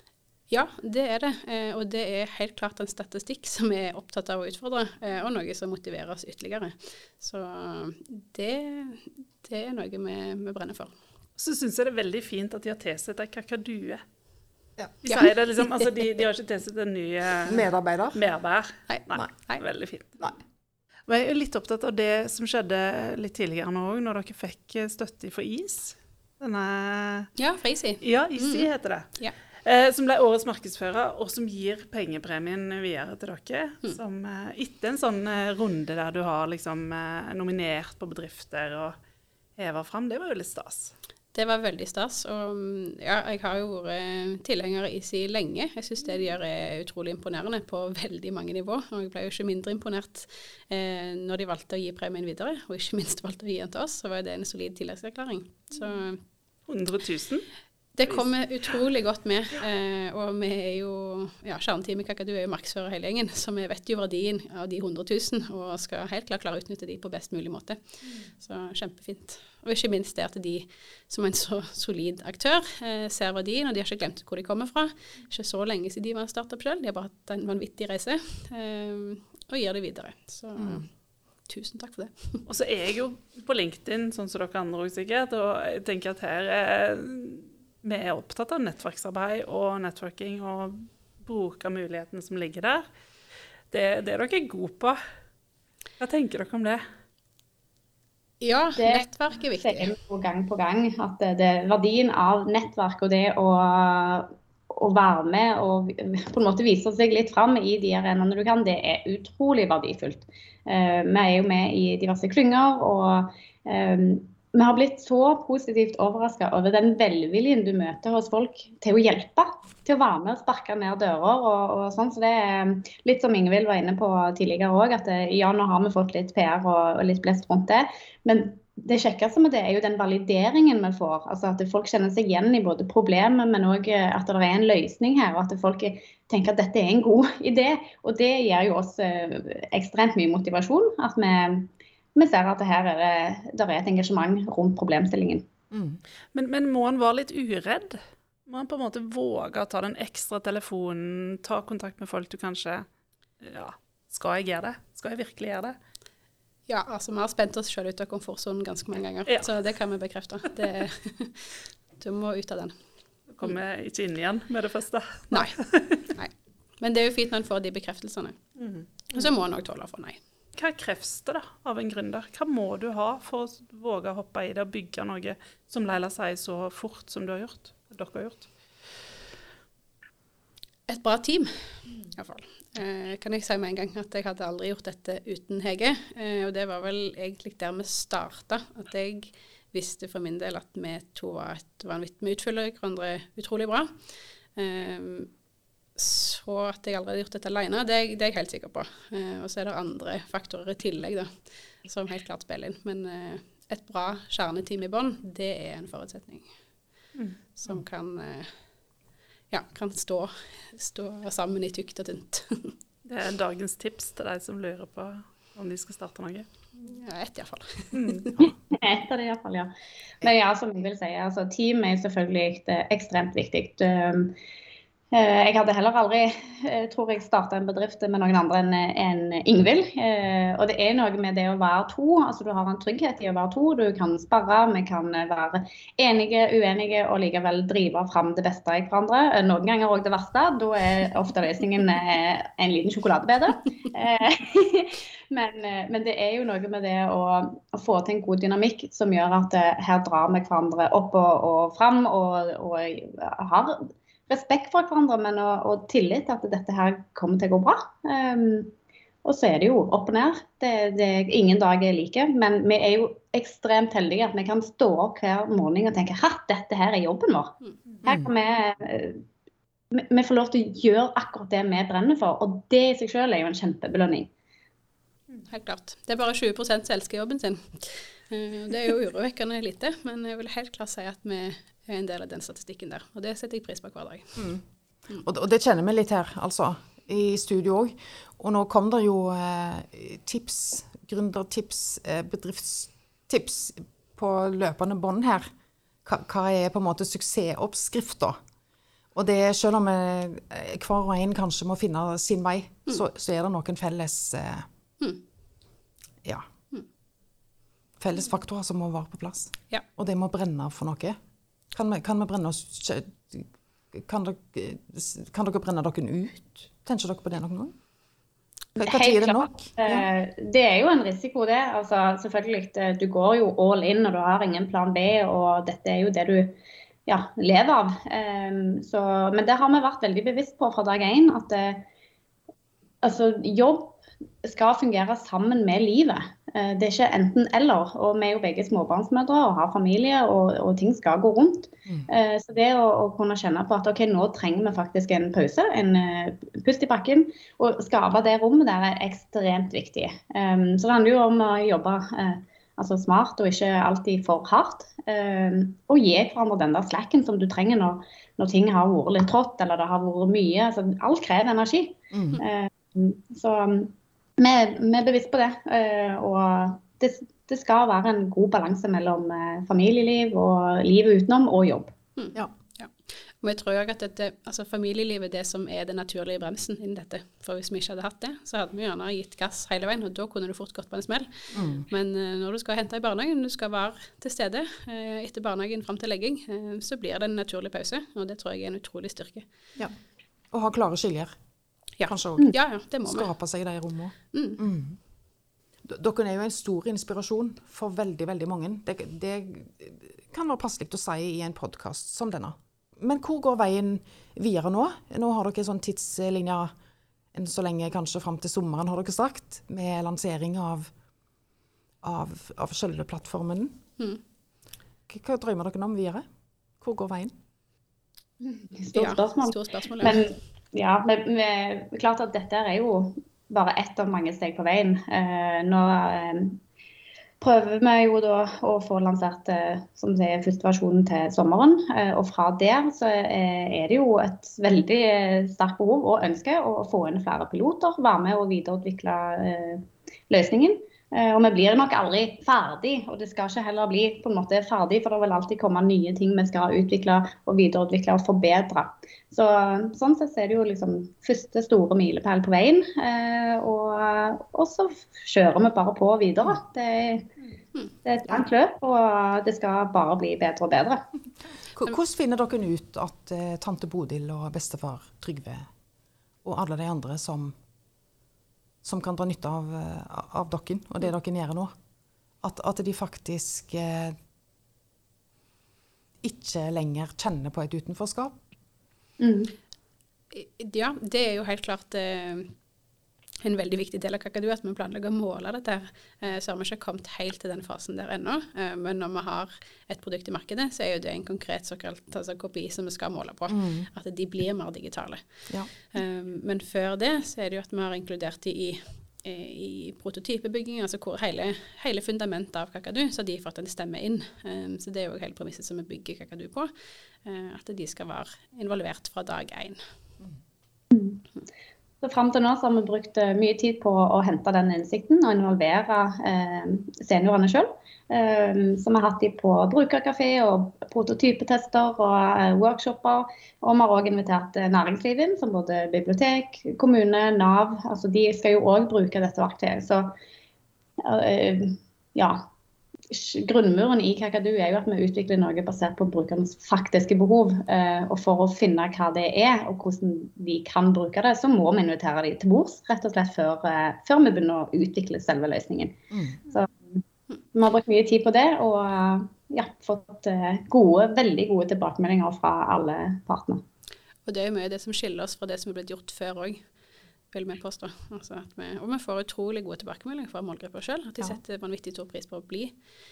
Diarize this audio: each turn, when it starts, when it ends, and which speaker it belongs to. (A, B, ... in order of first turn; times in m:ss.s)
0:00.5-0:10.9 A
0:11.4-0:14.0 B
0:15.0-0:20.2 B
0:15.0-0:15.3 A
0:17.4-0:18.2 C
0:18.9-0:19.6 A
0:21.1-0:27.3 B
0:27.4-0:29.3 A
0:28.0-0:29.1 B
0:29.6-0:39.0 B
0:39.6-0:40.9 B
0:41.3-0:56.2 A
0:56.7-0:57.5 B
0:57.9-1:20.9 A
1:20.6-1:20.8 C
1:21.4-1:22.4 A
1:22.5-1:32.9 B
1:33.7-1:35.0 B
1:36.0-1:36.8 B
1:38.4-1:39.9 A
1:38.8-2:25.5 D
2:25.7-2:26.0 C
2:26.3-2:32.9 B
2:33.4-2:35.8 B
2:36.7-2:42.7 A
2:43.3-2:46.0 B
2:45.3-2:45.6 A
2:46.1-2:48.4 A
2:48.6-2:49.3 B
2:49.1-2:50.2 A
2:50.6-2:58.5 B
3:00.9-3:13.9 A
3:14.5-3:15.3 A
3:16.0-3:21.3 A
3:21.8-3:26.5 A
3:27.6-3:28.5 A
3:29.5-3:32.8 A
3:33.0-3:36.5 B
3:36.8-3:38.3 A
3:37.9-3:38.3 B
3:38.4-3:44.3 D
3:45.1-4:18.7 D
4:19.2-4:29.2 D
4:28.0-4:28.3 C
4:29.9-4:34.3 D
4:35.5-4:44.5 A
4:44.4-4:44.6 C
4:45.2-4:55.5 C
4:56.0-4:58.4 C
4:59.1-5:04.7 C
5:08.0-5:11.2 C
5:11.7-5:17.7 C
5:18.8-5:20.1 C
5:18.8-5:26.6 D
5:27.1-5:31.8 D
5:33.0-6:11.9 D
6:02.1-6:02.4 C
6:12.2-6:29.5 A
6:21.5-6:21.8 C
6:30.5-6:31.4 C
6:32.0-6:33.3 A
6:32.0-6:35.0 C
6:34.3-6:34.6 A
6:35.8-6:46.7 C
6:47.3-6:50.9 C
6:52.0-6:53.8 C
6:55.1-6:56.2 C
6:56.8-6:57.4 C
6:58.4-7:06.6 D
6:58.9-7:00.3 A
7:07.4-7:37.3 D
7:38.0-7:41.0 D
7:41.7-7:45.7 C
7:46.4-7:47.5 C
7:48.8-7:51.7 C
7:52.4-7:54.2 C
7:56.2-7:58.4 C
7:59.2-7:59.5 D
8:00.3-8:02.5 A
8:03.4-8:26.7 A
8:13.5-8:13.9 C
8:27.2-8:29.8 A
8:30.9-8:31.2 D
8:32.0-8:50.1 D
8:51.0-8:52.5 D
8:53.1-9:07.0 D
9:06.1-9:06.4 C
9:07.5-9:13.6 D
9:14.2-9:16.7 A
9:17.3-9:22.9 A